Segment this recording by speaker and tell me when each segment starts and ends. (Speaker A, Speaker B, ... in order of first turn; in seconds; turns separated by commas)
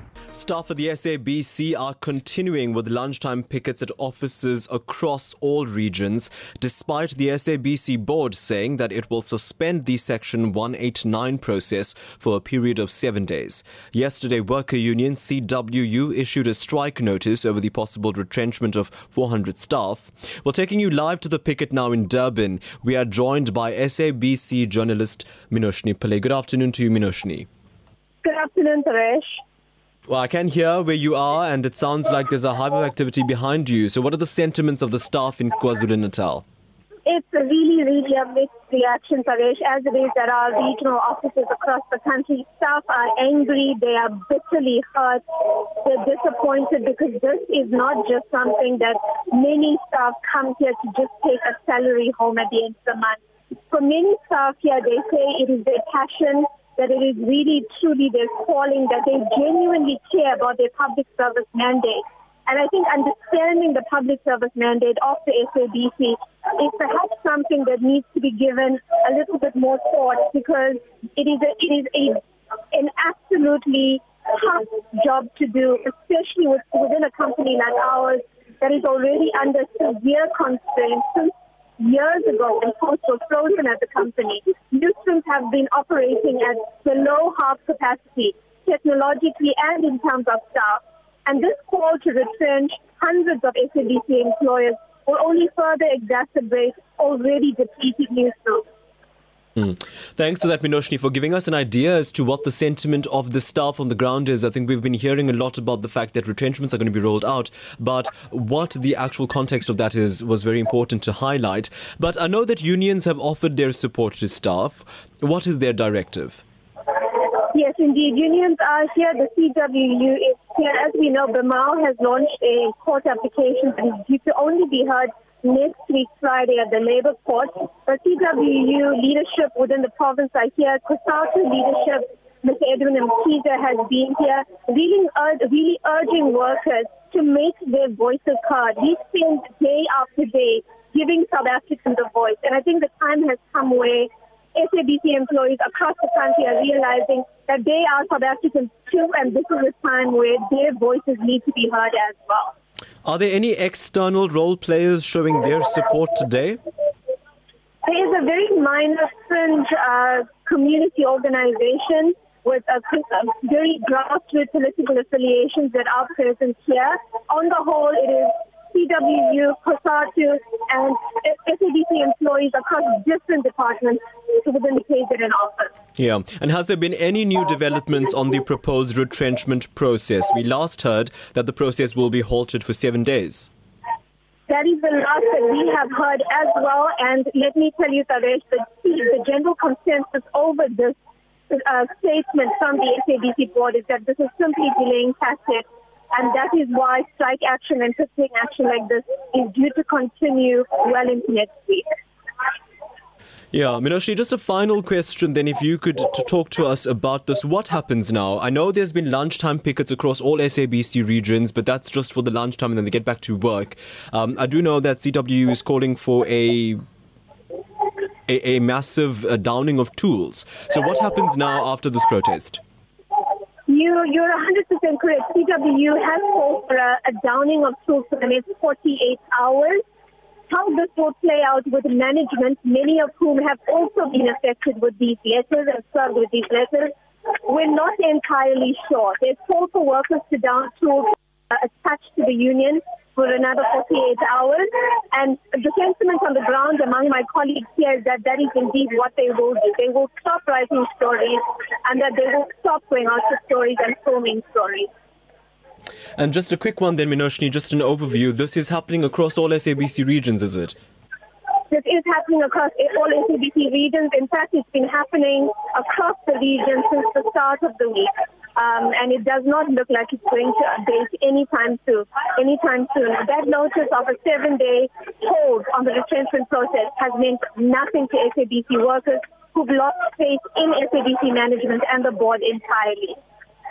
Speaker A: 0.3-27.5, Speaker B: 28.2-29.4, Speaker A: 30.1-36.4, Speaker B: 37.1-98.7, Speaker A: 99.6-116.4, Speaker B: 117.5-152.5, Speaker A: 153.1-156.6, Speaker B: 157.8-175.7, Speaker A: 176.0-183.5, Speaker B: 184.5-191.0, Speaker B: 191.5-201.9, Speaker A: 203.5-216.8, Speaker A: 218.3-222.6, Speaker B: 223.7-229.8, Speaker B: 230.5-254.9, Speaker A: 256.2-260.8, Speaker B: 261.7-283.2